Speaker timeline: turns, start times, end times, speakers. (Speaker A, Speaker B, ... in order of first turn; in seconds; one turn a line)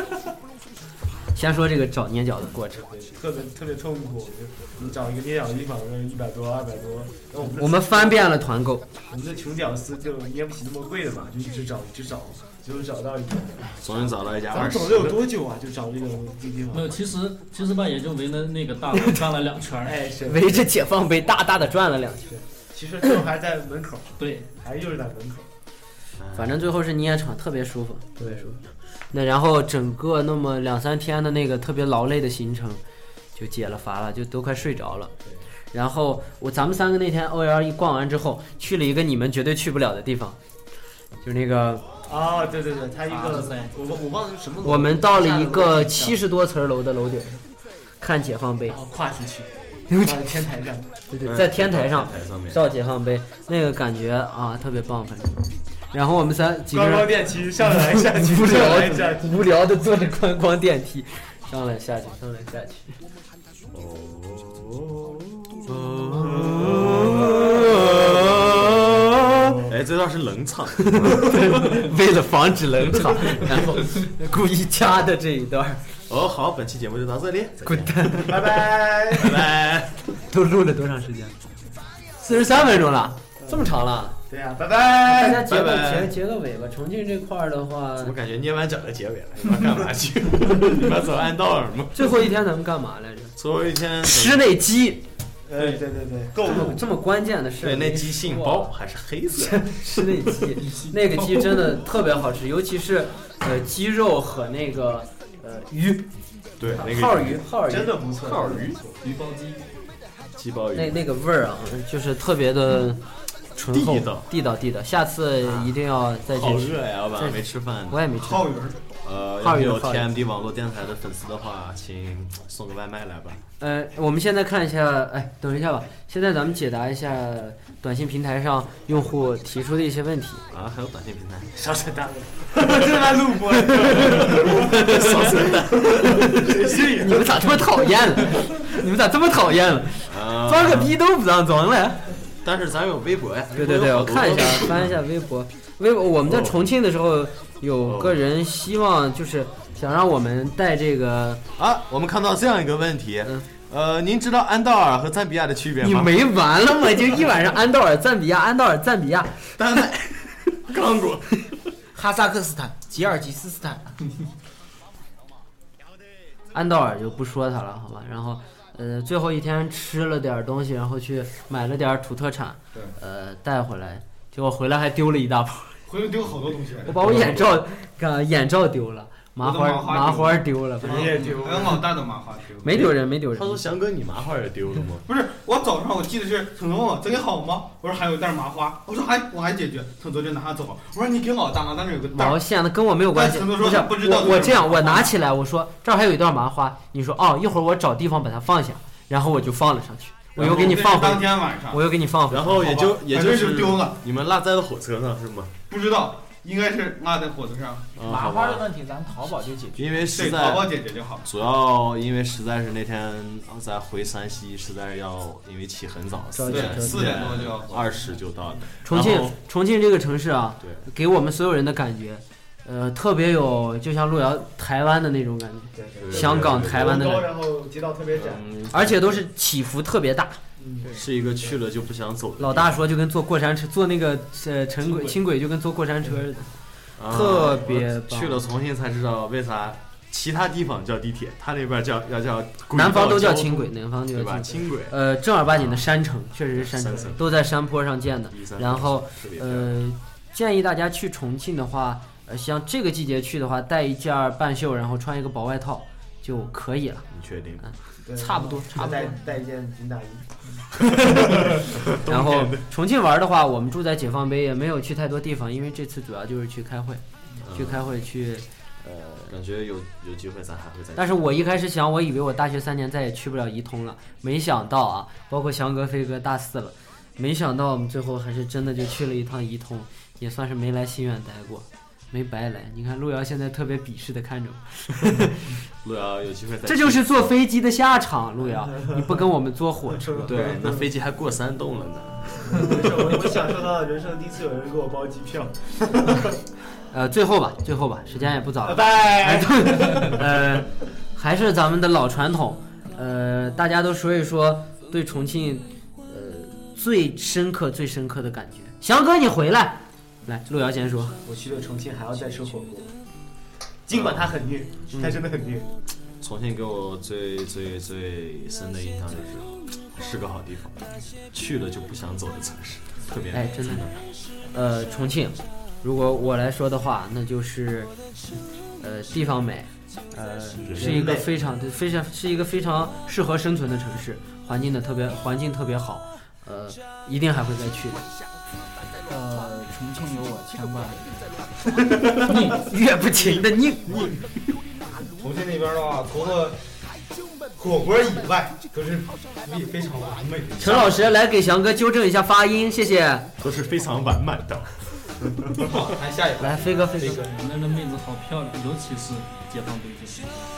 Speaker A: 1.4-2.9
Speaker B: 2.9-8.2
Speaker A: 7.6-8.8
Speaker B: 9.1-17.0
Speaker C: 13.8-15.3
Speaker D: 16.7-20.1
Speaker B: 19.8-20.6
Speaker A: 20.3-22.3
Speaker B: 22.3-25.5
Speaker D: 24.2-24.5
Speaker C: 26.2-26.6
Speaker A: 26.4-28.6
Speaker B: 28.2-28.6
Speaker A: 29.1-32.8
Speaker A: 33.4-35.1
Speaker A: 35.7-40.4
Speaker A: 41.2-41.9
Speaker B: 42.1-46.2
Speaker D: 43.1-43.7
Speaker A: 44.6-47.4
Speaker A: 48.0-48.8
Speaker B: 48.7-50.9
Speaker A: 49.9-50.2
Speaker A: 51.1-55.3
Speaker C: 51.2-52.6
Speaker A: 55.9-62.9
Speaker B: 56.7-59.5
Speaker C: 63.7-68.8
Speaker A: 66.1-69.6
Speaker C: 69.7-71.9
Speaker A: 70.9-75.8
Speaker C: 76.1-80.0
Speaker A: 77.7-79.4
Speaker B: 78.2-79.3
Speaker A: 80.2-81.4
Speaker A: 82.2-84.2
Speaker B: 83.4-83.7
Speaker B: 84.3-85.4
Speaker C: 84.6-86.1
Speaker A: 85.0-88.1
Speaker C: 88.0-92.2
Speaker A: 91.9-93.4
Speaker C: 93.4-94.5
Speaker A: 94.0-95.0
Speaker B: 95.5-96.8
Speaker A: 96.5-98.7
Speaker C: 97.6-100.1
Speaker A: 99.4-106.1
Speaker D: 100.6-101.6
Speaker C: 106.6-107.5
Speaker A: 106.7-108.0
Speaker B: 107.7-109.0
Speaker C: 108.2-108.8
Speaker D: 109.0-109.6
Speaker C: 110.4-111.1
Speaker A: 110.8-113.0
Speaker A: 113.5-118.5
Speaker C: 113.7-114.3
Speaker C: 115.4-115.7
Speaker C: 116.3-118.1
Speaker E: 118.2-118.8
Speaker C: 119.0-123.4
Speaker A: 119.4-120.1
Speaker A: 123.6-130.4
Speaker C: 130.5-131.6
Speaker B: 131.6-137.8
Speaker A: 133.8-142.1
Speaker C: 134.0-136.4
Speaker C: 140.1-140.9
Speaker C: 142.4-145.0
Speaker A: 143.5-151.4
Speaker C: 146.2-146.6
Speaker C: 147.8-148.2
Speaker C: 151.6-156.2
Speaker A: 155.8-159.4
Speaker C: 159.6-161.4
Speaker F: 161.9-164.0
Speaker A: 166.5-175.8
Speaker E: 175.9-177.3
Speaker A: 176.8-181.2
Speaker C: 177.0-177.6
Speaker E: 179.4-182.8
Speaker B: 180.8-181.9
Speaker A: 182.6-183.6
Speaker C: 182.7-185.0
Speaker E: 185.1-192.4
Speaker A: 192.1-202.7
Speaker E: 193.1-195.2
Speaker E: 200.4-201.8
Speaker C: 202.3-205.5
Speaker E: 202.6-204.0
Speaker E: 205.7-207.9
Speaker C: 208.0-208.7
Speaker F: 208.0-210.0
Speaker C: 209.8-210.7
Speaker E: 210.1-211.2
Speaker C: 211.2-219.4
Speaker A: 216.3-217.3
Speaker E: 216.5-217.9
Speaker A: 218.8-227.3
Speaker B: 225.7-228.4
Speaker C: 226.0-227.2
Speaker C: 228.1-229.2
Speaker A: 228.7-230.4
Speaker B: 230.6-231.6
Speaker C: 230.9-232.8
Speaker A: 232.4-236.5
Speaker B: 234.8-235.2
Speaker C: 237.0-245.9
Speaker A: 237.0-238.4
Speaker A: 242.7-257.1
Speaker C: 246.5-247.4
Speaker C: 248.3-249.8
Speaker C: 257.1-257.7
Speaker A: 257.6-259.1
Speaker B: 258.0-260.3
Speaker A: 260.9-261.5
Speaker C: 261.0-262.7
Speaker B: 261.1-261.6
Speaker A: 262.1-269.3
Speaker C: 267.4-267.9
Speaker C: 269.3-271.6
Speaker A: 271.0-285.6
Speaker C: 285.8-287.3
Speaker A: 286.6-290.4
Speaker B: 288.4-289.2
Speaker B: 290.0-290.9
Speaker C: 290.2-293.5
Speaker B: 292.4-296.4
Speaker A: 296.9-311.2
Speaker B: 298.6-300.4
Speaker B: 311.2-312.9
Speaker B: 313.9-315.7
Speaker C: 313.9-314.4
Speaker A: 314.9-315.2
Speaker C: 316.2-324.0
Speaker A: 323.3-323.9
Speaker A: 324.5-327.9
Speaker A: 328.8-338.0
Speaker C: 330.6-331.2
Speaker B: 330.8-331.3
Speaker F: 339.1-341.2
Speaker A: 342.1-344.2
Speaker D: 342.2-342.6
Speaker E: 345.2-346.6
Speaker E: 347.6-351.1
Speaker A: 350.6-353.3
Speaker C: 353.4-354.7
Speaker B: 355.2-355.7
Speaker E: 355.6-357.4
Speaker A: 356.4-357.3
Speaker D: 357.2-360.5